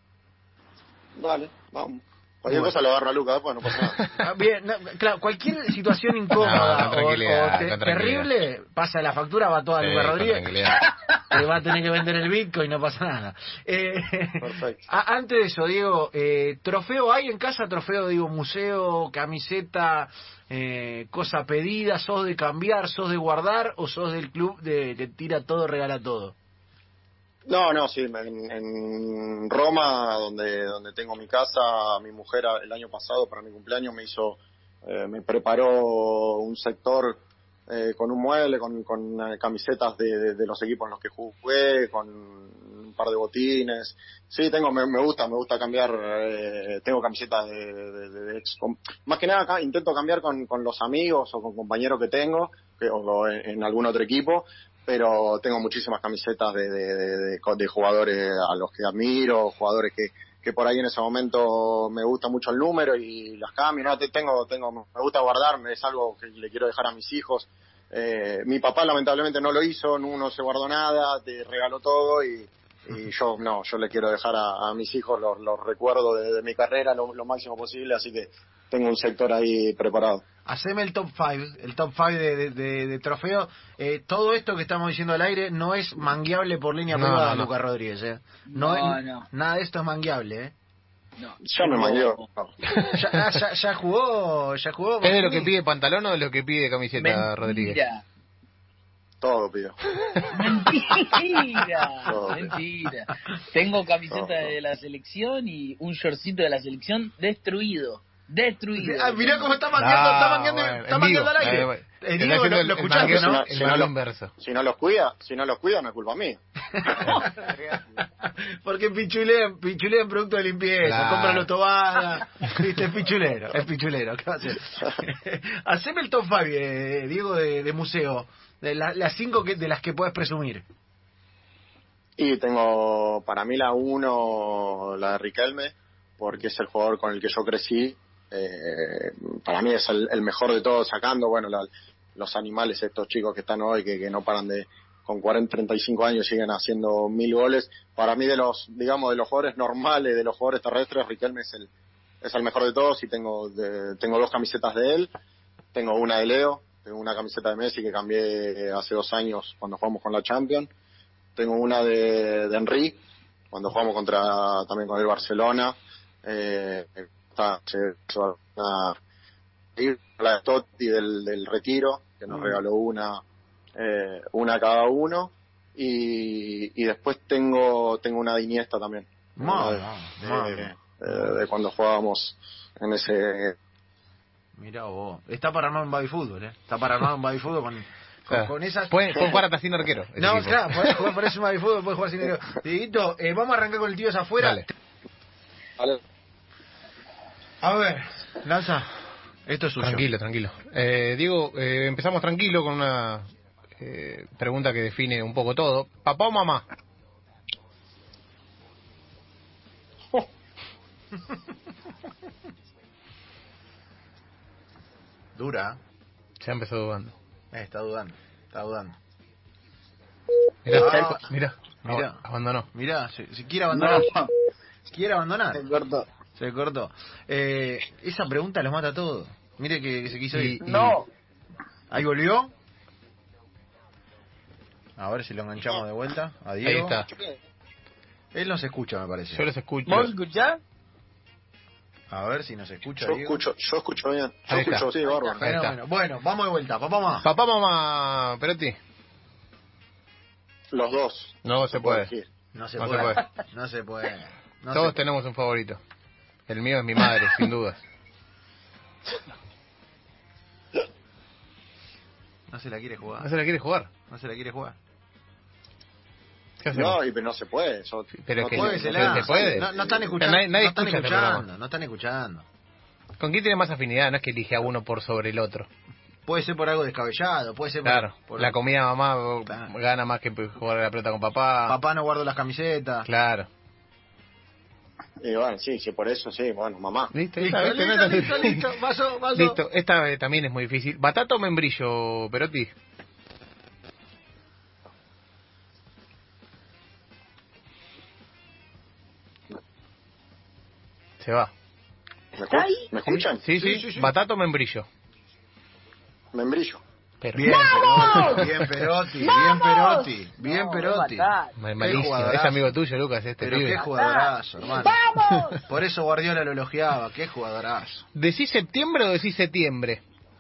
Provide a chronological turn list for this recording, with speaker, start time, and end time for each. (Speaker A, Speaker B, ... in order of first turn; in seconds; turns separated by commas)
Speaker A: 1.2-4.0, Speaker B: 4.2-26.4, Speaker C: 6.4-8.3, Speaker C: 9.8-10.9, Speaker A: 14.4-14.9, Speaker A: 27.5-80.2, Speaker B: 80.5-90.5, Speaker C: 86.9-87.5, Speaker D: 88.5-89.3, Speaker D: 91.2-92.2, Speaker A: 91.4-92.5, Speaker C: 92.7-93.1, Speaker B: 92.9-95.5, Speaker C: 95.0-97.8, Speaker D: 97.0-98.0, Speaker A: 99.2-99.8, Speaker D: 100.3-109.6, Speaker A: 102.0-102.5, Speaker A: 104.1-104.5, Speaker B: 108.8-113.5, Speaker C: 109.8-114.3, Speaker A: 112.9-117.0, Speaker B: 116.8-117.2, Speaker D: 117.1-118.1, Speaker B: 118.3-130.6, Speaker C: 120.8-121.5, Speaker A: 132.2-151.7, Speaker A: 152.2-155.1, Speaker A: 155.7-160.7, Speaker A: 161.4-163.0, Speaker A: 163.5-169.0, Speaker A: 169.8-173.2, Speaker A: 173.8-183.6, Speaker B: 179.4-180.7, Speaker B: 184.6-189.4, Speaker C: 188.3-191.1, Speaker B: 190.2-194.7, Speaker C: 194.4-194.7, Speaker B: 197.6-198.9, Speaker B: 199.5-200.1, Speaker C: 199.8-203.3, Speaker C: 203.8-206.7, Speaker B: 215.3-215.8, Speaker C: 216.4-217.1, Speaker B: 217.5-219.0, Speaker C: 220.7-222.7, Speaker D: 220.7-221.2, Speaker B: 220.7-221.3, Speaker B: 221.8-224.1, Speaker D: 223.7-224.3, Speaker B: 224.9-225.6, Speaker D: 225.5-226.1, Speaker B: 226.4-230.6, Speaker C: 230.3-231.0, Speaker D: 230.6-231.1, Speaker B: 231.9-232.5, Speaker B: 235.0-237.0, Speaker C: 236.6-237.1, Speaker A: 237.1-237.3, Speaker B: 238.3-239.4, Speaker C: 239.3-240.1, Speaker D: 239.9-240.6, Speaker B: 242.1-243.4, Speaker A: 243.0-245.4, Speaker C: 244.5-244.9, Speaker B: 245.0-247.3, Speaker C: 245.4-245.8, Speaker C: 247.2-248.8, Speaker A: 250.7-252.3, Speaker C: 251.4-252.1, Speaker B: 252.5-255.0, Speaker C: 252.8-253.3, Speaker C: 254.7-255.8, Speaker C: 256.5-257.8, Speaker B: 262.5-263.3, Speaker C: 263.2-263.9, Speaker B: 264.1-264.8, Speaker C: 266.6-267.0, Speaker A: 266.7-270.2, Speaker C: 268.2-271.4, Speaker B: 268.5-272.4, Speaker C: 273.2-275.7, Speaker B: 276.3-278.6, Speaker C: 277.9-281.8, Speaker B: 279.5-279.7, Speaker B: 281.7-283.1, Speaker C: 283.1-283.5, Speaker A: 285.2-287.1, Speaker C: 287.1-288.6, Speaker B: 287.4-289.6, Speaker C: 289.4-292.7, Speaker C: 301.2-301.5, Speaker A: 302.4-303.4, Speaker D: 302.5-302.9, Speaker B: 303.1-304.1, Speaker C: 303.4-304.9, Speaker A: 306.3-306.8, Speaker C: 307.2-308.4, Speaker B: 307.3-312.7, Speaker E: 307.5-310.2, Speaker D: 310.4-311.6, Speaker C: 311.6-313.9, Speaker B: 313.4-315.0, Speaker D: 313.8-314.3, Speaker E: 314.7-315.6, Speaker B: 315.7-318.1, Speaker C: 318.1-320.0